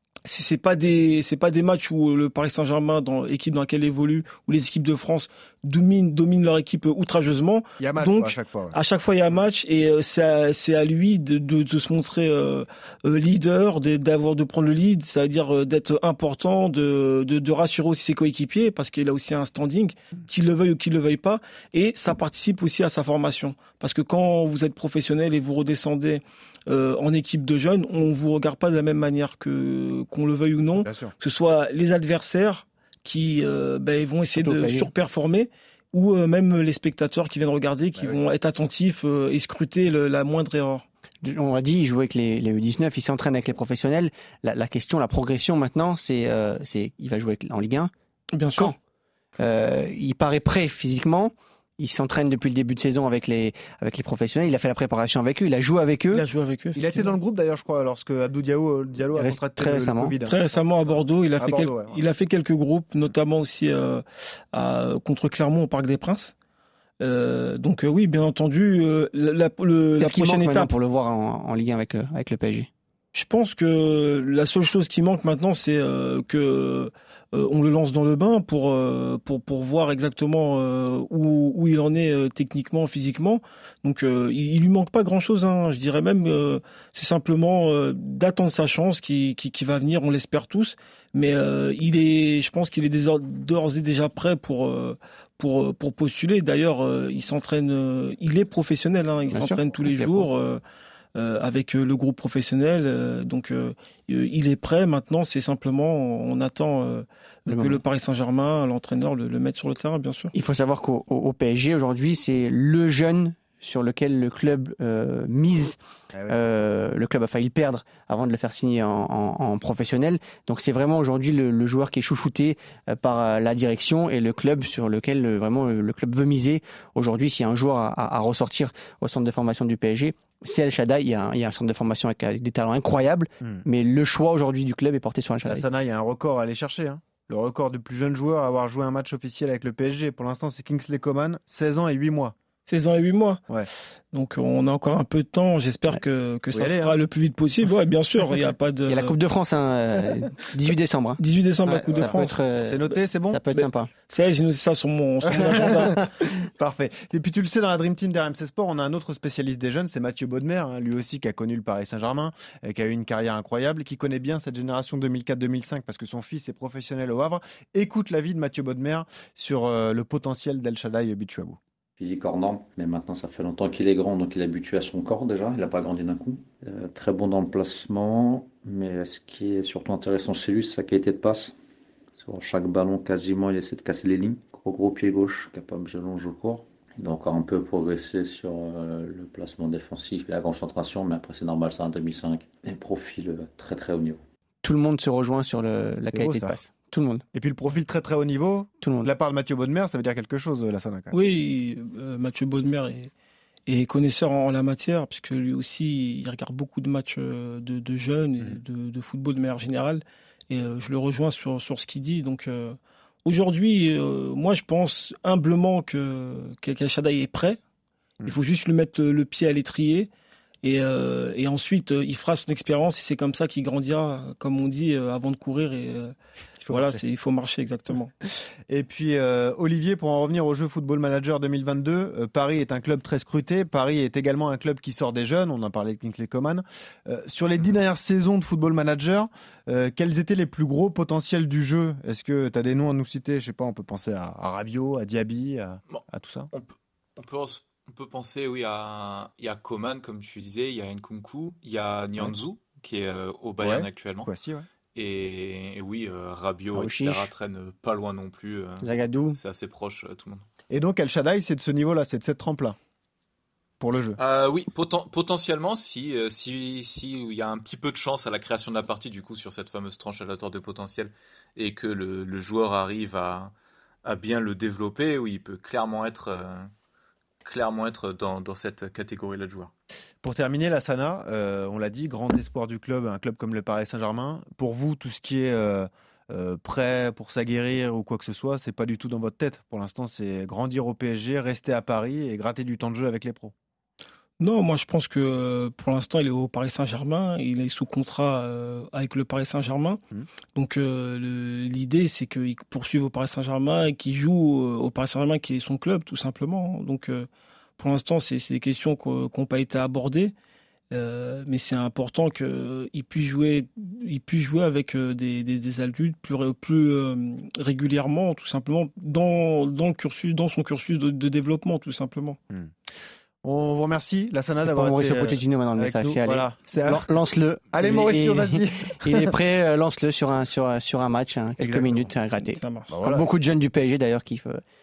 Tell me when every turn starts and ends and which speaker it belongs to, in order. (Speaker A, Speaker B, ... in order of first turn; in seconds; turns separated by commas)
Speaker A: 0.3-40.9, Speaker B: 7.8-8.8, Speaker B: 30.8-31.1, Speaker C: 34.4-34.9, Speaker C: 41.2-47.9, Speaker A: 48.3-48.7, Speaker C: 49.4-56.2, Speaker A: 56.1-57.2, Speaker B: 56.7-62.0, Speaker C: 59.2-60.1, Speaker A: 60.2-66.3, Speaker A: 67.0-70.7, Speaker C: 70.0-72.7, Speaker A: 73.1-100.6, Speaker C: 99.3-100.3, Speaker A: 101.2-110.3, Speaker C: 107.5-107.8, Speaker C: 110.3-115.8, Speaker B: 116.1-116.4, Speaker C: 116.3-135.7, Speaker B: 135.5-142.3, Speaker A: 142.7-143.4, Speaker A: 144.1-149.2, Speaker B: 146.5-147.0, Speaker C: 148.9-153.9, Speaker A: 151.2-152.4, Speaker B: 151.9-153.4, Speaker A: 153.6-156.0, Speaker B: 155.3-171.6, Speaker D: 172.0-181.6, Speaker D: 182.2-194.2, Speaker C: 194.6-197.2, Speaker B: 196.1-196.6, Speaker B: 197.3-201.1, Speaker C: 198.8-199.1, Speaker A: 201.1-203.1, Speaker A: 203.7-217.6, Speaker A: 218.3-220.1, Speaker A: 220.6-226.1, Speaker B: 226.6-227.0, Speaker A: 226.7-228.1, Speaker B: 228.7-246.5, Speaker E: 245.9-254.3, Speaker B: 253.6-254.7, Speaker E: 254.9-260.4, Speaker C: 256.7-257.3, Speaker C: 258.8-259.4, Speaker B: 260.7-262.8, Speaker B: 263.8-264.2, Speaker E: 264.2-273.5, Speaker E: 274.1-276.7, Speaker E: 277.4-279.7, Speaker B: 280.2-293.5, Speaker A: 294.4-300.0, Speaker A: 300.6-310.3, Speaker A: 310.9-322.4, Speaker B: 323.4-327.1, Speaker C: 324.7-334.6, Speaker B: 327.7-329.4, Speaker B: 331.6-332.1, Speaker A: 332.4-332.9, Speaker B: 332.9-333.3